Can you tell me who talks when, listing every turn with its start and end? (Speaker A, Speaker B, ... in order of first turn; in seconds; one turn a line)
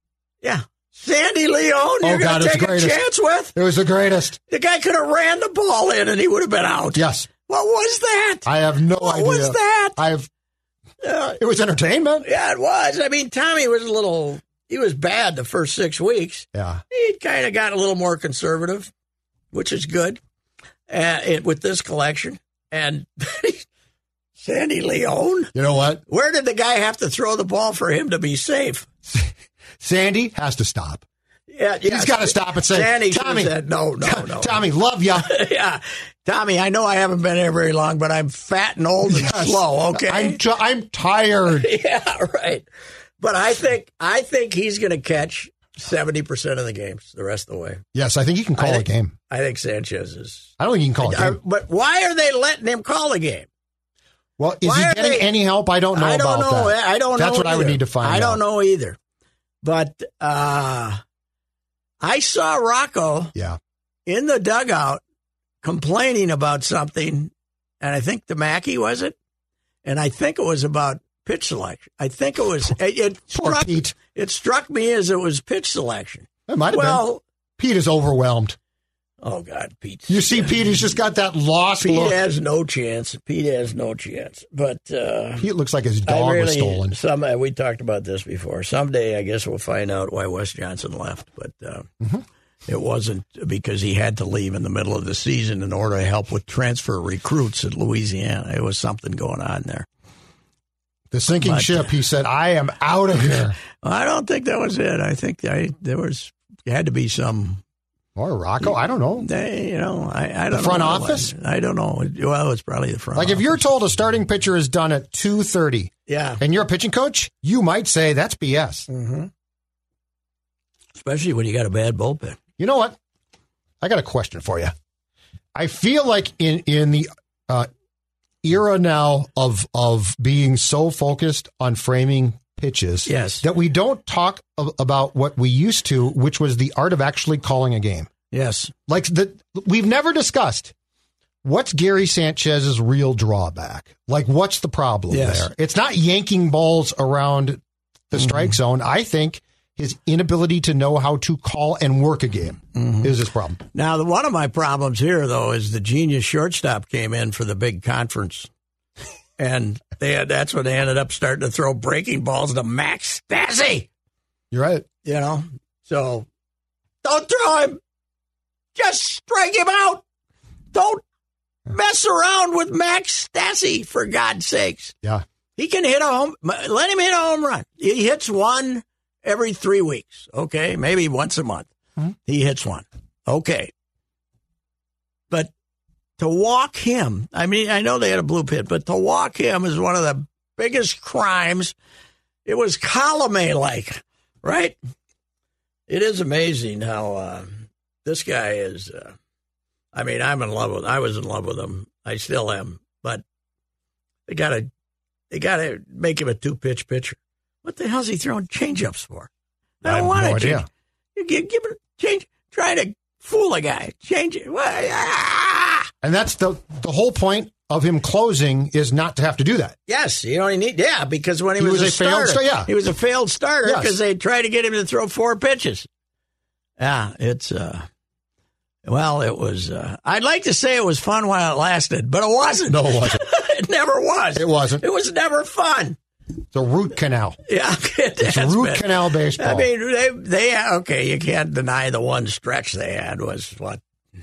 Speaker A: 0.4-3.5
Speaker B: 2.0-3.0
Speaker B: 3.5-4.4
Speaker A: 4.5-10.0
Speaker B: 6.9-7.3
Speaker B: 8.4-10.3
Speaker A: 11.0-11.4
Speaker B: 11.4-12.3
Speaker A: 12.2-18.9
Speaker B: 16.5-16.8
Speaker A: 19.5-20.2
Speaker A: 20.9-23.6
Speaker A: 24.4-25.5
Speaker B: 25.5-26.0
Speaker A: 26.1-28.9
Speaker B: 29.8-31.0
Speaker A: 31.5-34.6
Speaker B: 31.9-35.3
Speaker A: 35.1-40.4
Speaker B: 39.0-41.7
Speaker A: 41.5-42.6
Speaker A: 43.2-47.8
Speaker B: 47.9-49.1
Speaker A: 48.6-50.5
Speaker B: 50.6-51.4
Speaker A: 51.0-53.5
Speaker B: 54.4-58.4
Speaker A: 54.6-55.3
Speaker A: 55.9-59.0
Speaker A: 59.6-61.0
Speaker A: 62.0-63.3
Speaker A: 64.0-65.0
Speaker A: 65.6-69.1
Speaker A: 69.8-77.2
Speaker B: 73.3-73.9
Speaker B: 76.5-77.0
Speaker B: 77.6-78.6
Speaker A: 79.2-80.9
Speaker B: 80.1-82.2
Speaker A: 81.8-85.5
Speaker B: 85.4-86.9
Speaker A: 86.0-91.9
Speaker A: 92.7-99.8
Speaker B: 101.1-103.6
Speaker A: 101.4-101.8
Speaker A: 103.8-107.6
Speaker B: 108.2-109.3
Speaker A: 108.6-113.5
Speaker B: 110.5-111.3
Speaker B: 113.1-118.9
Speaker A: 116.1-116.4
Speaker A: 118.9-119.3
Speaker A: 121.0-122.4
Speaker B: 122.6-123.0
Speaker B: 123.8-124.7
Speaker B: 125.5-127.7
Speaker B: 128.4-138.1
Speaker A: 133.1-133.4
Speaker A: 138.3-138.7
Speaker B: 138.9-140.7
Speaker B: 141.4-153.6
Speaker A: 145.1-145.5
Speaker A: 148.2-148.5
Speaker A: 152.8-153.1
Speaker A: 153.7-158.5
Speaker A: 159.4-163.9
Speaker B: 164.5-164.8
Speaker A: 165.0-166.3
Speaker A: 167.0-167.8
Speaker A: 168.8-170.0
Speaker A: 170.7-171.0
Speaker A: 171.7-174.9
Speaker A: 175.6-181.7
Speaker A: 182.2-183.7
Speaker A: 186.2-191.7
Speaker A: 192.4-194.8
Speaker A: 195.9-199.1
Speaker A: 199.9-203.2
Speaker A: 204.3-204.7
Speaker A: 205.3-209.3
Speaker A: 209.8-210.6
Speaker B: 209.8-210.7
Speaker A: 211.2-215.9
Speaker B: 216.0-219.8
Speaker A: 219.9-225.9
Speaker B: 221.6-222.7
Speaker B: 223.6-224.0
Speaker A: 226.8-227.8
Speaker A: 228.8-236.0
Speaker B: 232.7-233.2
Speaker B: 234.3-234.8
Speaker B: 236.5-237.4
Speaker A: 237.5-243.8
Speaker B: 238.2-239.7